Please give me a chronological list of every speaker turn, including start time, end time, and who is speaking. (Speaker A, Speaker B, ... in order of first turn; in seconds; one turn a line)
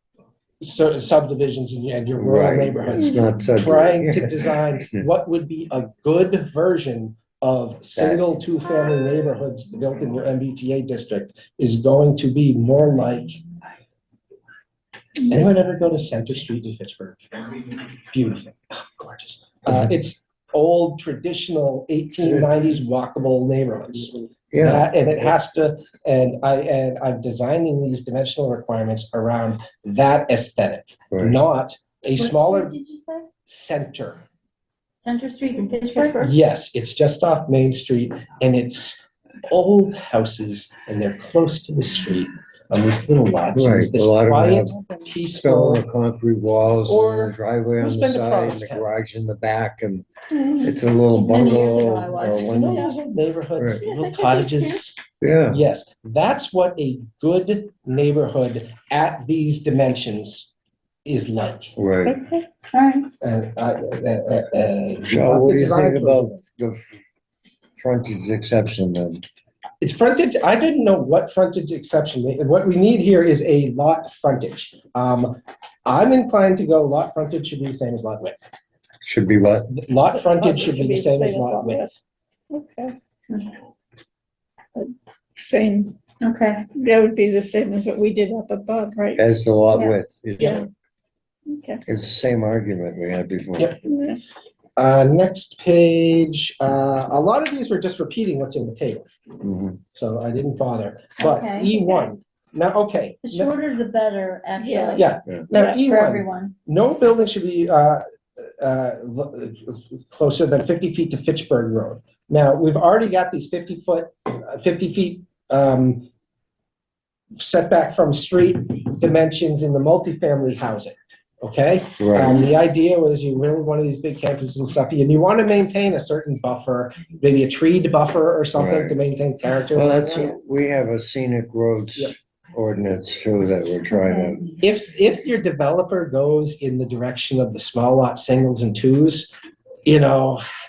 Speaker A: 0.6-13.4
Speaker B: 2.2-5.1
Speaker B: 7.9-8.2
Speaker A: 15.3-17.4
Speaker A: 18.1-32.8
Speaker B: 22.1-22.7
Speaker B: 24.5-24.9
Speaker B: 31.1-31.4
Speaker C: 32.2-33.3
Speaker A: 33.5-34.2
Speaker C: 35.0-36.3
Speaker A: 36.2-45.8
Speaker B: 43.5-44.8
Speaker B: 45.3-50.1
Speaker A: 46.9-48.9
Speaker B: 50.6-52.9
Speaker D: 51.3-52.9
Speaker C: 51.3-52.4
Speaker A: 52.2-60.5
Speaker D: 53.8-54.8
Speaker B: 55.2-55.6
Speaker A: 61.0-61.7
Speaker B: 61.8-62.2
Speaker D: 62.0-63.0
Speaker A: 63.2-66.4
Speaker B: 65.0-66.8
Speaker B: 67.8-69.2
Speaker A: 69.8-78.5
Speaker B: 79.0-79.7
Speaker A: 79.7-82.0
Speaker D: 80.1-81.9
Speaker D: 82.5-83.5
Speaker D: 84.8-86.0
Speaker C: 86.2-86.7
Speaker D: 86.7-89.2
Speaker B: 89.2-90.6
Speaker D: 90.4-90.7
Speaker D: 91.5-91.8
Speaker B: 91.9-93.7
Speaker D: 93.8-94.2
Speaker A: 94.8-99.1
Speaker B: 99.4-99.8
Speaker A: 99.9-103.5
Speaker C: 101.2-102.1
Speaker C: 103.2-105.1
Speaker D: 104.6-105.8
Speaker A: 105.0-116.1
Speaker C: 105.7-106.5
Speaker A: 117.4-130.3
Speaker B: 122.0-122.5
Speaker B: 128.6-129.0
Speaker B: 129.7-134.5
Speaker A: 134.6-139.3
Speaker A: 139.9-140.4